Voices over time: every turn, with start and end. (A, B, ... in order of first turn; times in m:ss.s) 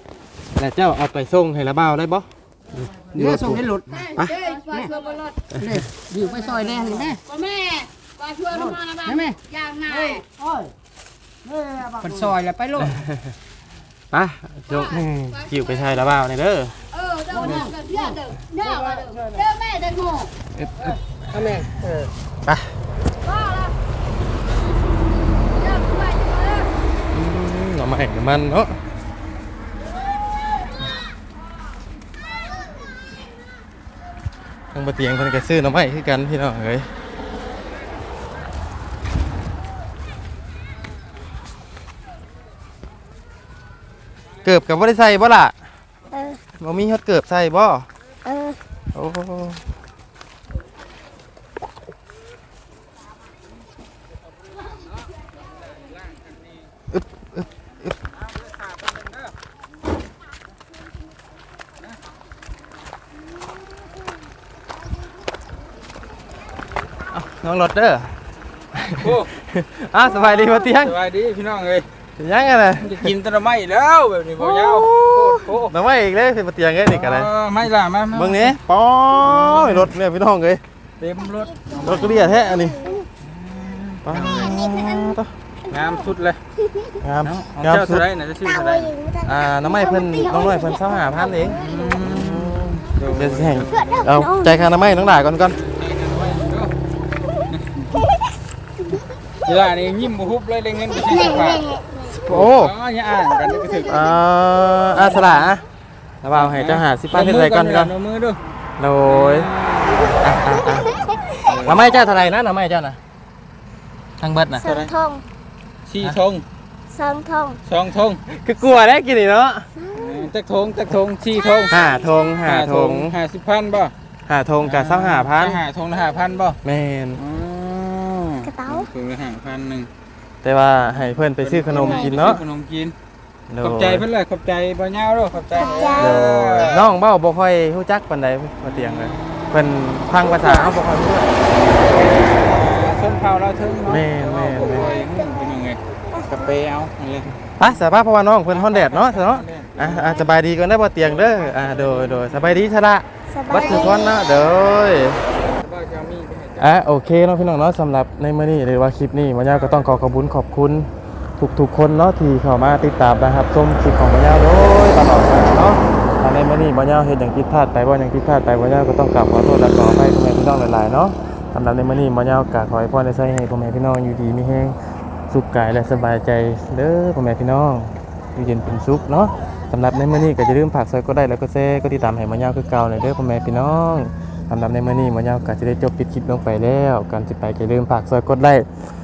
0:00.6-0:04.4 A
0:03.1-0:04.1 B
0:03.9-0:05.4 C
0:05.6-0:05.8 A
0:05.6-0:07.2 B
0:07.2-0:10.2 C
0:09.0-0:09.4 B
0:11.9-0:13.0 B
0:13.0-0:13.3 A
0:14.1-0:16.8 A
0:14.7-0:15.7 C
0:16.9-0:20.3 C
0:20.5-0:21.0 A
0:21.3-0:22.1 B
0:22.4-0:22.8 A
0:25.6-0:26.7 C
0:27.1-0:28.8 A
0:34.7-0:36.9 A
0:44.4-0:45.6 A
0:46.1-0:46.4 D
0:46.6-0:47.9 A
0:48.2-0:48.6 D
0:48.9-0:49.6 A
0:56.9-0:57.9 A
0:58.3-0:59.3 E
1:07.1-1:08.2 A
1:08.7-1:11.0 A
1:09.0-1:09.3 E
1:10.2-1:11.9 E
1:12.2-1:13.1 A
1:12.8-1:15.7 E
1:14.4-1:17.3 A
1:16.8-1:18.6 E
1:18.1-1:20.6 A
1:19.2-1:19.9 E
1:21.0-1:22.1 E
1:21.2-1:23.0 D
1:21.8-1:22.8 A
1:23.2-1:24.6 E
1:24.0-1:25.3 A
1:24.2-1:25.1 D
1:25.7-1:26.4 E
1:26.7-1:27.0 D
1:27.0-1:28.0 A
1:27.2-1:28.9 E
1:28.4-1:32.0 D
1:29.2-1:35.6 A
1:31.6-1:34.2 E
1:33.6-1:34.6 D
1:35.4-1:36.7 E
1:37.5-1:38.0 E
1:39.4-1:41.6 E
1:41.0-1:42.1 D
1:42.1-1:42.7 A
1:42.3-1:44.1 E
1:43.9-1:45.6 A
1:44.9-1:45.6 E
1:46.2-1:47.9 A
1:46.3-1:48.4 E
1:48.8-1:49.5 A
1:49.0-1:50.1 E
1:50.2-1:51.0 A
1:51.4-1:51.8 E
1:51.6-1:53.0 A
1:54.2-1:54.8 A
1:54.6-1:55.2 D
1:55.8-1:56.4 E
1:56.9-1:57.6 D
1:57.6-1:58.2 E
1:58.3-1:59.7 A
1:59.8-2:00.3 D
1:59.9-2:01.8 E
2:01.7-2:03.1 A
2:01.7-2:02.3 D
2:02.4-2:03.9 E
2:04.2-2:05.6 A
2:04.6-2:06.6 E
2:06.6-2:07.2 A
2:07.2-2:09.9 E
2:08.4-2:08.9 D
2:10.4-2:12.4 A
2:11.3-2:12.9 E
2:11.7-2:12.2 D
2:13.5-2:14.0 A
2:13.6-2:16.8 E
2:15.5-2:16.2 D
2:15.9-2:21.4 A
2:18.6-2:19.2 E
2:20.4-2:20.8 D
2:21.7-2:27.4 E
2:23.9-2:25.0 A
2:24.8-2:25.5 D
2:26.1-2:26.4 D
2:27.4-2:35.2 A
2:28.5-2:30.2 E
2:31.0-2:32.7 E
2:33.3-2:34.3 D
2:35.4-2:36.7 E
2:36.6-2:54.8 A
2:39.5-2:40.0 E
2:55.3-3:08.7 A